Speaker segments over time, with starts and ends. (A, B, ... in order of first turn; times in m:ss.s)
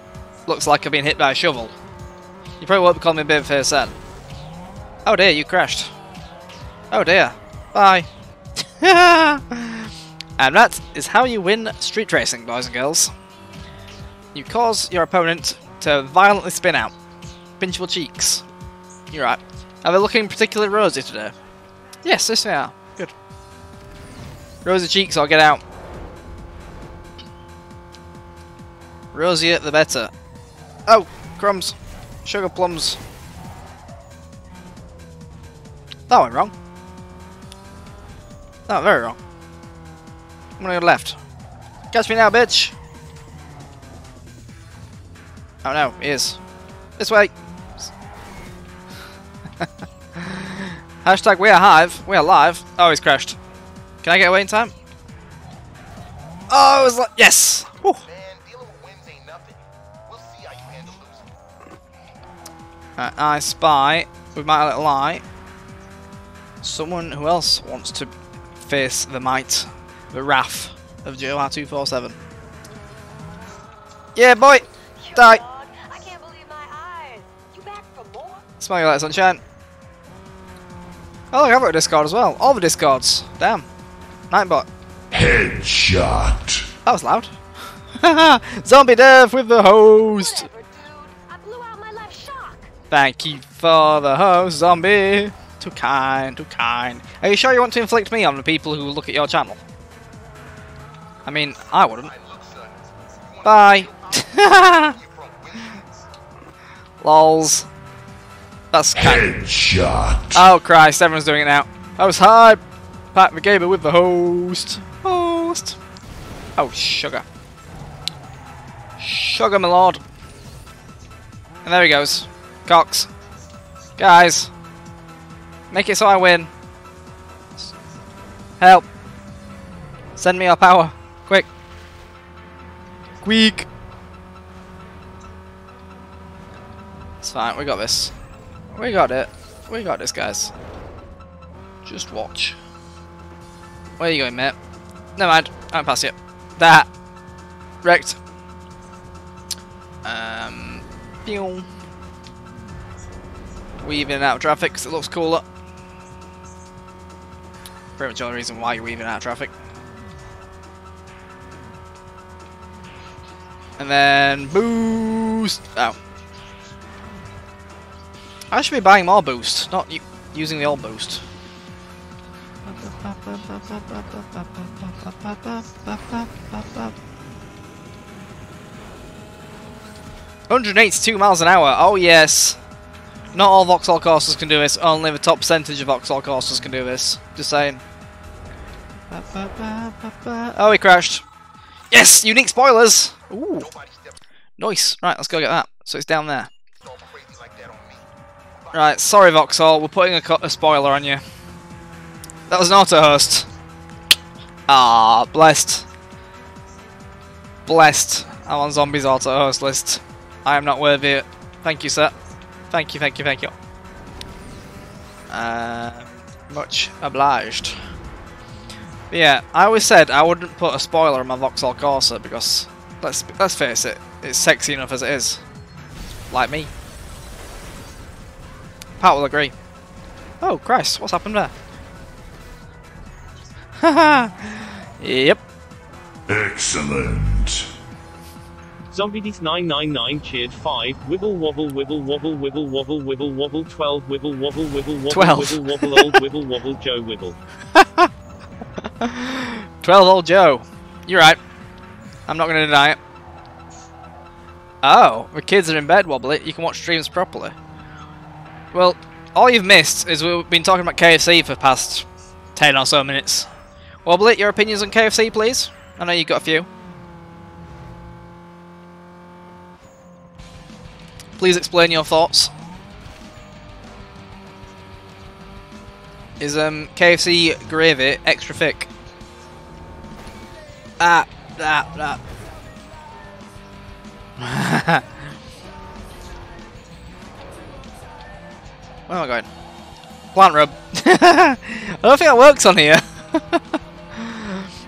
0:00.4-0:01.7 A
0:02.6-0:03.9 A
0:05.0-0:05.9 A
0:06.9-0:08.1 A
0:08.8-0:13.1 A
0:14.3-0:16.9 A
0:17.6-0:18.4 A
0:19.1-0:21.3 A
0:22.0-0:23.1 A
0:24.6-0:25.6 A
0:29.1-0:30.1 A
0:30.9-0:33.0 A
0:36.1-0:36.5 A
0:38.7-0:39.2 A
0:40.6-0:41.2 A
0:41.9-0:42.7 A
0:45.6-0:46.4 A
0:47.0-0:47.3 A
0:49.6-0:53.4 A
0:54.0-0:54.7 A
0:56.5-0:58.0 A
0:58.0-1:01.3 B
1:03.0-1:05.2 A
1:06.6-1:12.2 A
1:14.2-1:15.4 A
1:15.0-1:18.5 C
1:18.6-1:19.4 A
1:21.3-1:23.6 A
1:24.3-1:24.7 A
1:25.1-1:26.7 D
1:26.8-1:27.4 A
1:28.0-1:30.5 A
1:30.1-1:32.7 C
1:32.9-1:39.6 A
1:41.2-1:42.1 A
1:41.7-1:46.0 B
1:43.4-1:45.0 A
1:47.0-1:47.7 A
1:48.7-1:49.3 A
1:48.9-1:50.5 D
1:50.3-1:52.6 A
1:53.1-1:55.8 A
1:56.6-1:57.2 A
1:59.0-2:00.0 A
2:01.6-2:03.1 A
2:04.0-2:04.5 A
2:05.7-2:06.5 A
2:08.6-2:08.9 A
2:10.2-2:11.5 A
2:13.2-2:13.7 A
2:17.2-2:18.1 A
2:18.7-2:20.5 A
2:21.8-2:22.6 A
2:24.0-2:24.6 A
2:25.2-2:26.9 A
2:27.8-2:28.2 A
2:30.0-2:31.7 A
2:33.8-2:35.4 A
2:38.0-2:39.5 A
2:43.8-2:46.0 A
2:48.5-2:51.2 A
2:52.6-2:56.9 A
3:00.5-3:02.6 A
3:03.3-3:07.8 A
3:09.1-3:11.2 A
3:11.9-3:13.7 A
3:13.6-3:14.2 B
3:14.6-3:16.5 A
3:16.8-3:18.0 B
3:18.7-3:21.2 A
3:22.5-3:23.5 A
3:24.7-3:25.9 A
3:27.6-3:32.1 A
3:32.7-3:33.5 A
3:35.3-3:37.8 A
3:39.1-3:45.4 A
3:46.3-3:46.7 A
3:49.0-3:49.5 A
3:50.4-3:51.5 A
3:53.8-3:55.4 A
3:56.3-3:57.7 D
3:58.9-4:07.4 E
4:05.1-4:06.1 A
4:07.7-4:08.1 A
4:09.0-4:11.4 A
4:12.3-4:13.0 A
4:14.8-4:17.5 A
4:18.7-4:23.5 A
4:24.0-4:26.7 A
4:31.4-4:32.5 A
4:36.4-4:38.9 A
4:41.0-4:42.2 A
4:44.4-4:45.1 A
4:49.1-4:49.5 A
4:50.3-4:54.7 A